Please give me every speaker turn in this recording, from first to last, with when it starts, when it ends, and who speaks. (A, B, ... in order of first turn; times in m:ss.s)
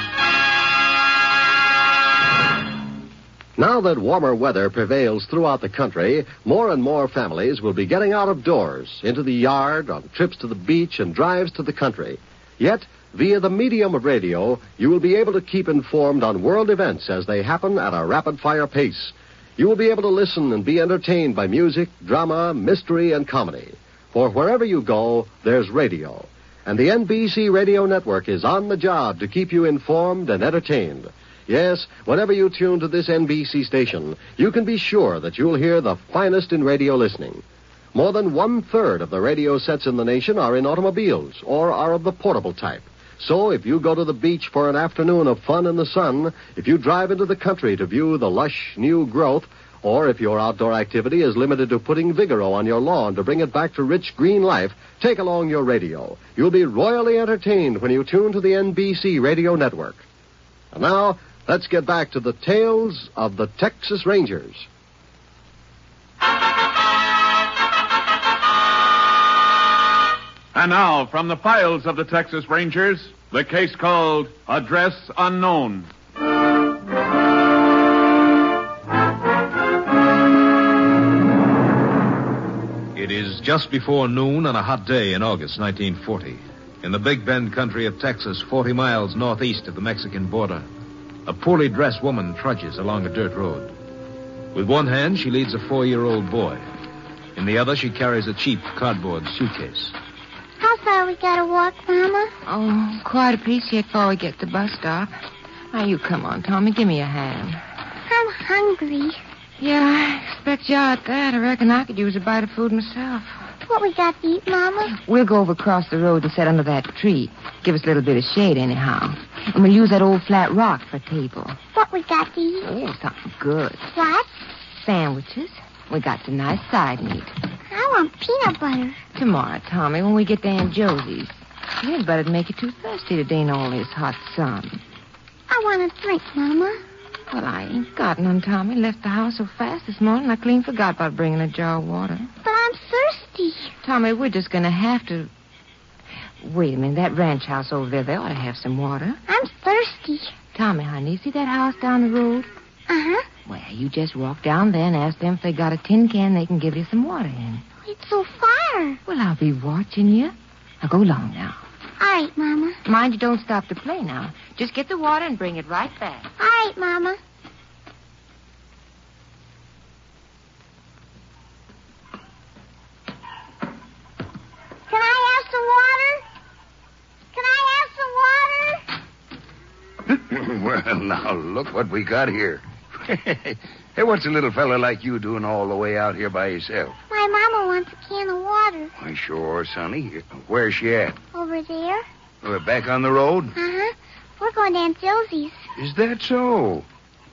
0:03.6-0:37.4 A
0:37.9-1:00.0 A
1:00.7-1:04.7 A
1:10.5-1:15.9 B
1:22.9-1:30.7 C
1:31.3-1:33.7 C
1:34.5-1:36.6 C
1:37.4-1:40.0 C
1:40.6-1:42.3 D
1:42.5-1:45.2 E
1:45.7-1:47.6 E
1:48.1-1:49.2 D
1:49.6-1:53.4 E
1:53.7-1:54.9 D
1:54.9-2:01.6 E
2:01.7-2:02.7 D
2:02.6-2:03.8 E
2:03.9-2:04.4 D
2:04.7-2:07.4 E
2:07.7-2:09.0 D
2:09.2-2:14.8 E
2:15.5-2:16.8 D
2:17.3-2:22.3 E
2:22.4-2:23.7 D
2:23.8-2:25.3 E
2:26.4-2:29.2 E
2:29.3-2:30.4 D
2:30.5-2:32.5 E
2:32.9-2:33.3 D
2:33.4-2:37.6 E
2:37.8-2:39.0 D
2:39.1-2:41.6 E
2:42.0-2:42.8 D
2:42.9-2:46.3 E
2:46.4-2:47.2 D
2:54.9-2:56.2 D
2:57.3-2:58.8 D
3:00.1-3:07.0 F
3:07.1-3:08.9 D
3:09.0-3:11.2 F
3:11.3-3:12.1 D
3:12.4-3:13.6 F
3:13.6-3:15.6 D
3:15.8-3:16.9 F